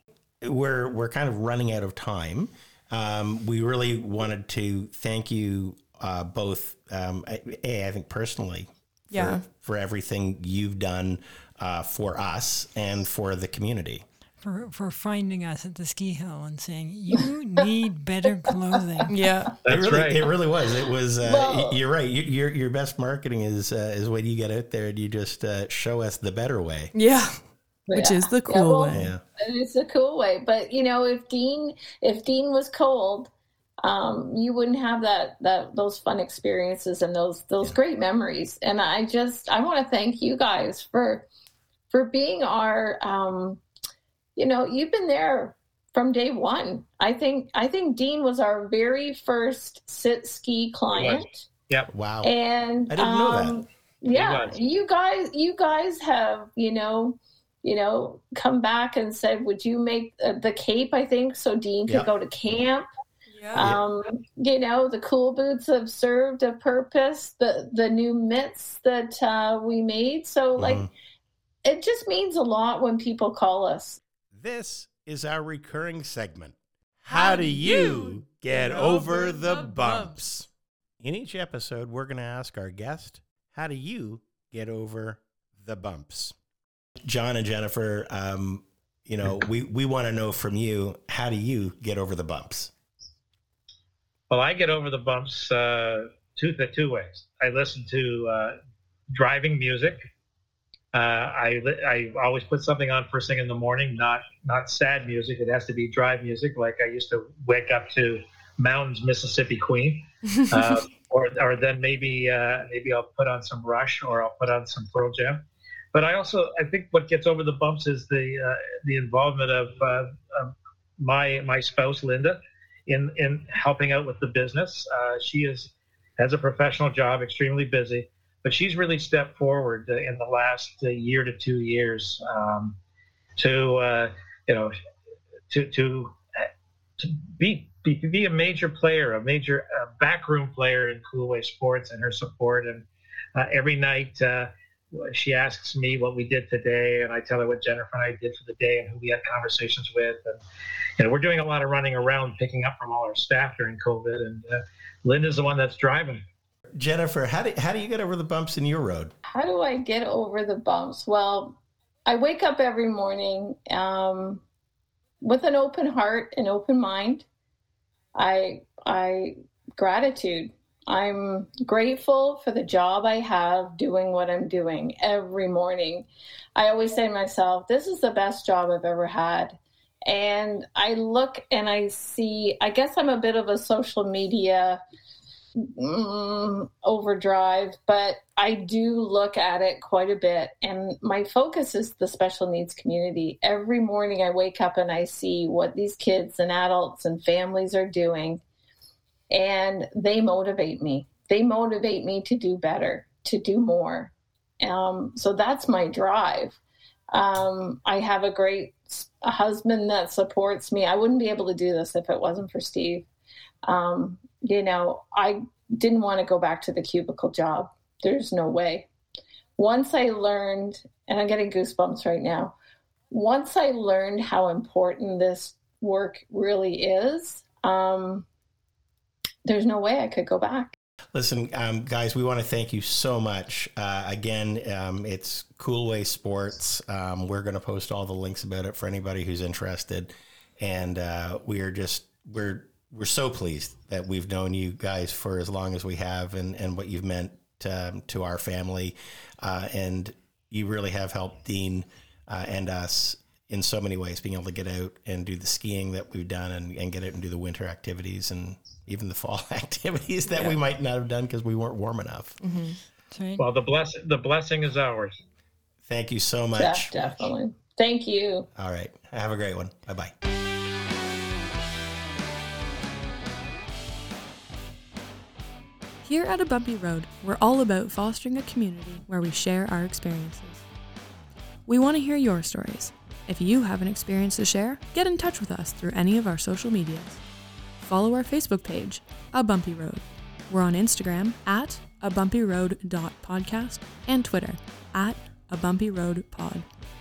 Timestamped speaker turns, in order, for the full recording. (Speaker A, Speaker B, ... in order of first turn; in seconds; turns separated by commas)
Speaker A: 0.4-14.0, Speaker B: 9.1-9.4, Speaker C: 14.4-19.1, Speaker B: 19.1-19.5, Speaker D: 19.6-20.2, Speaker A: 19.7-26.9, Speaker E: 21.2-21.8, Speaker B: 26.9-27.4, Speaker E: 27.9-33.3, Speaker B: 27.9-29.1, Speaker A: 28.9-29.2, Speaker E: 33.8-41.3, Speaker E: 41.9-43.6, Speaker E: 44.4-51.4, Speaker D: 50.9-51.9, Speaker A: 51.9-52.3, Speaker E: 52.2-62.9, Speaker A: 52.9-53.6, Speaker D: 54.1-54.6, Speaker B: 63.3-63.7, Speaker E: 63.5-70.9, Speaker A: 63.6-63.8, Speaker A: 70.6-70.9, Speaker E: 71.6-74.0, Speaker A: 74.3-80.5, Speaker B: 77.1-78.2, Speaker A: 81.0-86.3, Speaker A: 87.0-92.7, Speaker D: 94.3-98.6, Speaker D: 99.1-100.0, Speaker D: 100.9-132.8, Speaker D: 133.4-134.7, Speaker D: 135.5-150.4, Speaker D: 151.0-156.2, Speaker A: 156.8-159.1, Speaker E: 159.3-164.4, Speaker E: 165.2-167.3, Speaker E: 168.2-184.8, Speaker E: 185.6-198.4, Speaker E: 199.3-206.6, Speaker E: 207.1-213.1, Speaker E: 213.6-218.9, Speaker E: 219.6-222.5, Speaker E: 223.1-228.2, Speaker E: 229.4-230.7, Speaker A: 231.1-262.4, Speaker B: 262.4-262.8, Speaker C: 263.1-263.4, Speaker D: 263.4-265.2, Speaker A: 265.8-267.1, Speaker E: 266.6-268.5, Speaker A: 268.6-270.1, Speaker B: 276.0-280.6, Speaker B: 281.7-287.2, Speaker B: 287.8-296.7